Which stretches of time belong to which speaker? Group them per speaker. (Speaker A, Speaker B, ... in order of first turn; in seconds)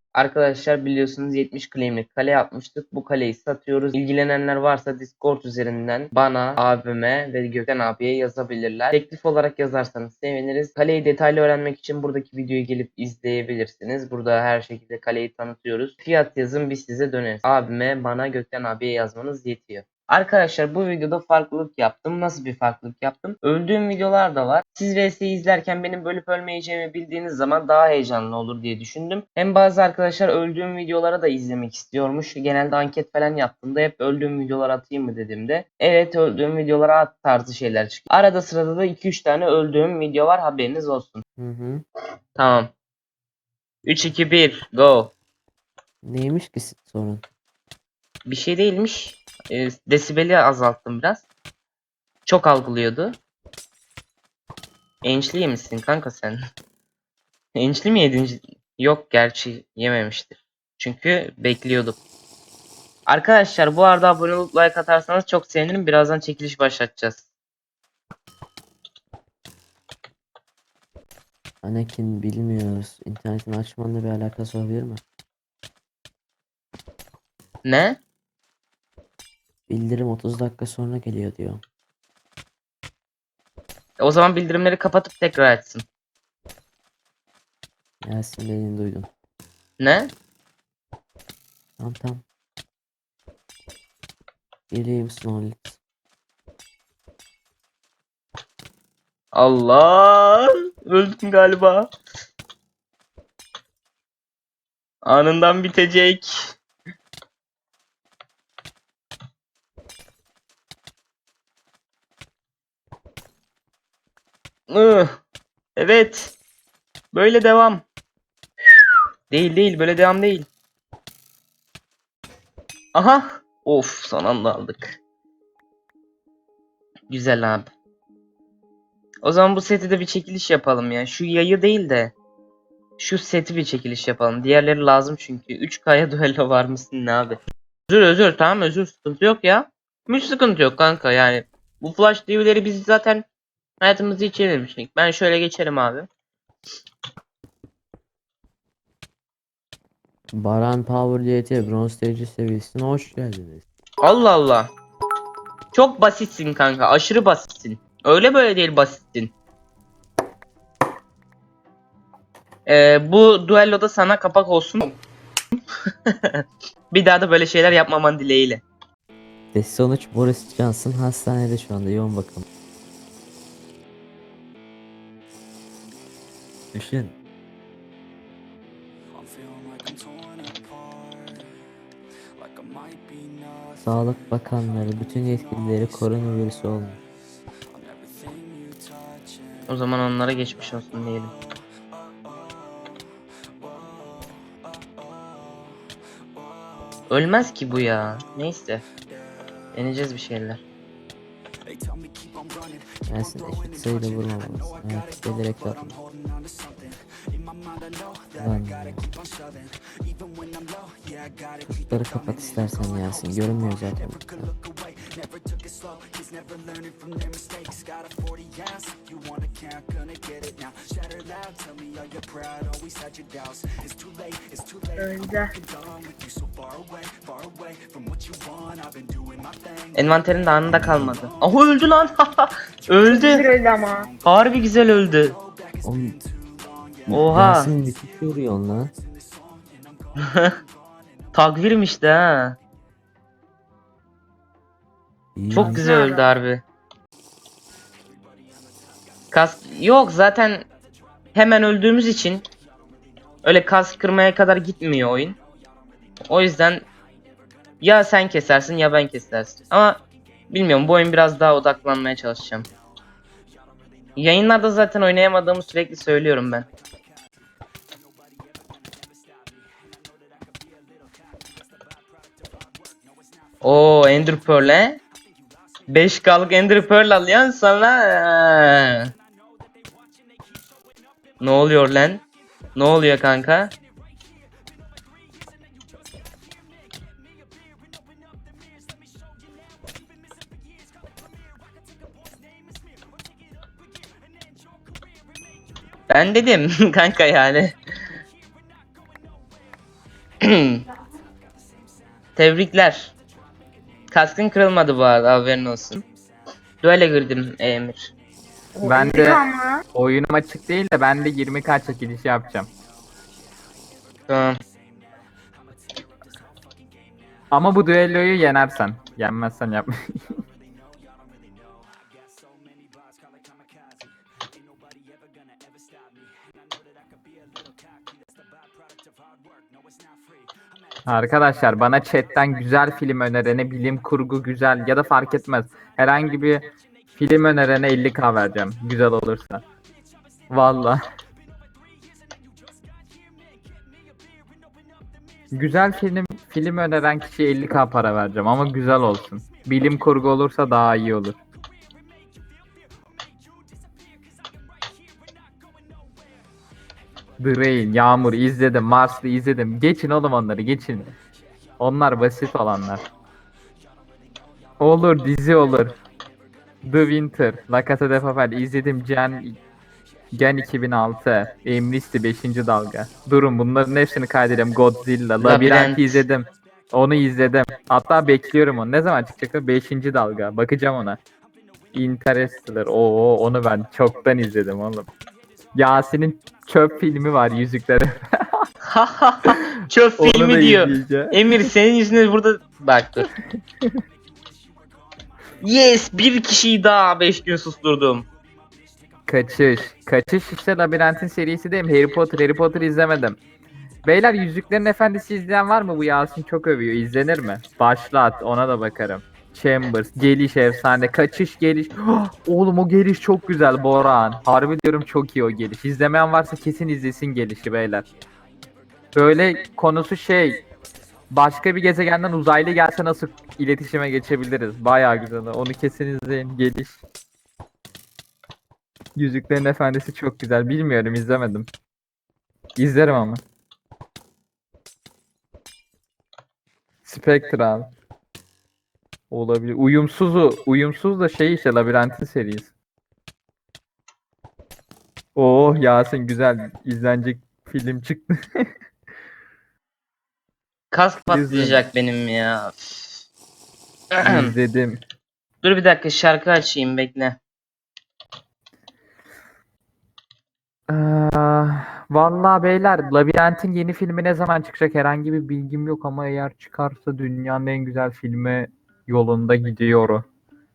Speaker A: 0.1-41.2, 42.4-42.7, 43.8-45.1, 48.3-51.2, 52.2-53.2, 55.0-56.4, 57.5-62.0, 63.1-67.2, 77.6-78.0, 84.0-85.8, 89.8-90.1, 99.3-101.9, 105.0-106.3, 114.7-115.1, 115.8-116.3, 117.1-117.8, 119.3-120.5, 122.9-125.0, 127.1-127.7, 129.2-132.1, 133.0-143.2, 143.8-146.1, 154.0-154.7, 155.7-159.3, 162.7-165.0, 166.4-168.6, 189.7-191.3, 197.1-198.8, 199.7-200.6, 229.9-233.5, 234.2-235.4, 237.1-237.7, 241.3-242.6, 245.5-246.6, 249.3-250.7, 251.3-252.4, 253.4-255.4, 256.3-256.8, 257.8-262.7, 264.1-266.7, 273.6-275.0, 275.9-279.0, 281.4-282.2, 282.7-283.7, 296.1-297.7, 300.4-300.8, 302.4-303.1, 304.1-306.0, 306.8-308.1, 314.3-314.6, 375.4-376.2, 388.9-393.3, 395.6-398.3, 450.9-453.1, 454.1-454.5, 455.6-457.4
Speaker B: 41.4-41.8, 46.0-47.2, 71.6-75.0, 79.7-81.6, 88.0-89.1, 91.8-92.2, 94.7-95.8, 150.3-153.6, 169.5-172.4, 176.7-177.1, 183.8-187.0, 203.1-206.0, 208.4-209.1, 211.7-214.5, 235.8-236.2, 237.1-238.9, 245.3-245.9
Speaker C: 225.0-225.5, 233.1-234.1, 245.7-246.2, 308.8-309.8
Speaker D: 308.8-312.7, 317.5-320.4, 331.1-336.6, 337.1-339.6, 340.5-341.0, 345.5-351.4, 357.4-361.1, 361.8-363.0, 364.8-365.9, 366.8-369.6, 370.3-381.2, 381.9-385.1, 385.7-388.6, 390.2-391.4, 399.3-403.4, 404.0-418.1, 419.1-420.6, 421.3-427.0, 429.1-431.7, 432.8-433.4, 437.0-437.9, 439.3-442.7, 445.3-448.6, 451.3-451.8, 454.2-455.0, 460.9-470.2